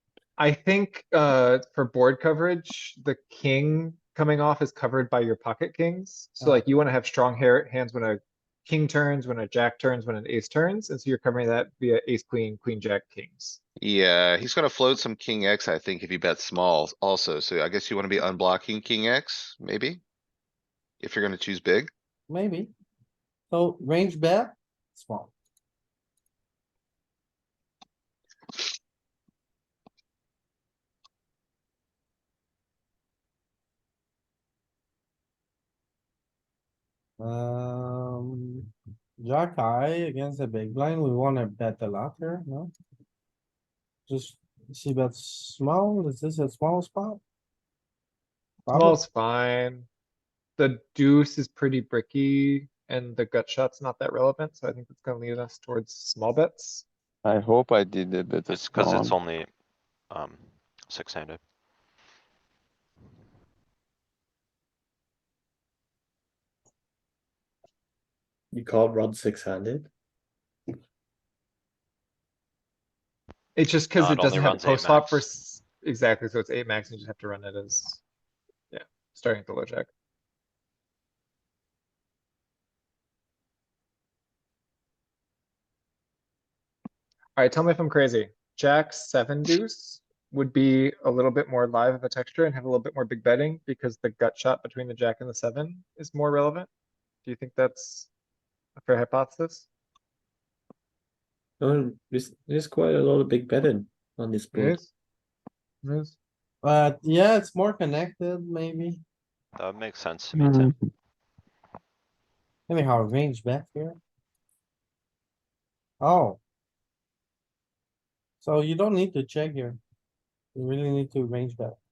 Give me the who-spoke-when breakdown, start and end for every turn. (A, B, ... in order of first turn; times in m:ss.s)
0:00.4-0:13.6 A
0:06.4-0:06.7 B
0:13.8-0:20.0 C
0:21.0-0:21.9 C
0:22.3-0:22.7 B
0:23.5-0:25.3 B
0:37.2-0:38.7 B
0:39.2-0:42.7 B
0:44.1-0:47.2 B
0:48.7-0:49.0 B
0:48.7-0:49.9 A
0:50.6-0:56.9 A
0:57.2-0:59.2 D
0:58.5-0:59.5 E
1:00.1-1:01.4 E
1:08.5-1:09.9 F
1:13.6-1:18.0 A
1:14.0-1:15.2 E
1:18.7-1:19.9 A
1:27.4-1:36.7 A
1:37.2-1:38.1 A
1:38.8-1:39.7 A
1:41.6-1:44.8 F
1:44.5-1:44.9 A
1:45.8-1:46.2 A
1:46.6-1:49.0 B
1:49.6-1:50.7 E
1:50.4-1:50.7 D
1:52.7-1:54.0 B
1:56.0-1:56.4 B
1:58.4-1:59.8 B
2:00.5-2:01.8 B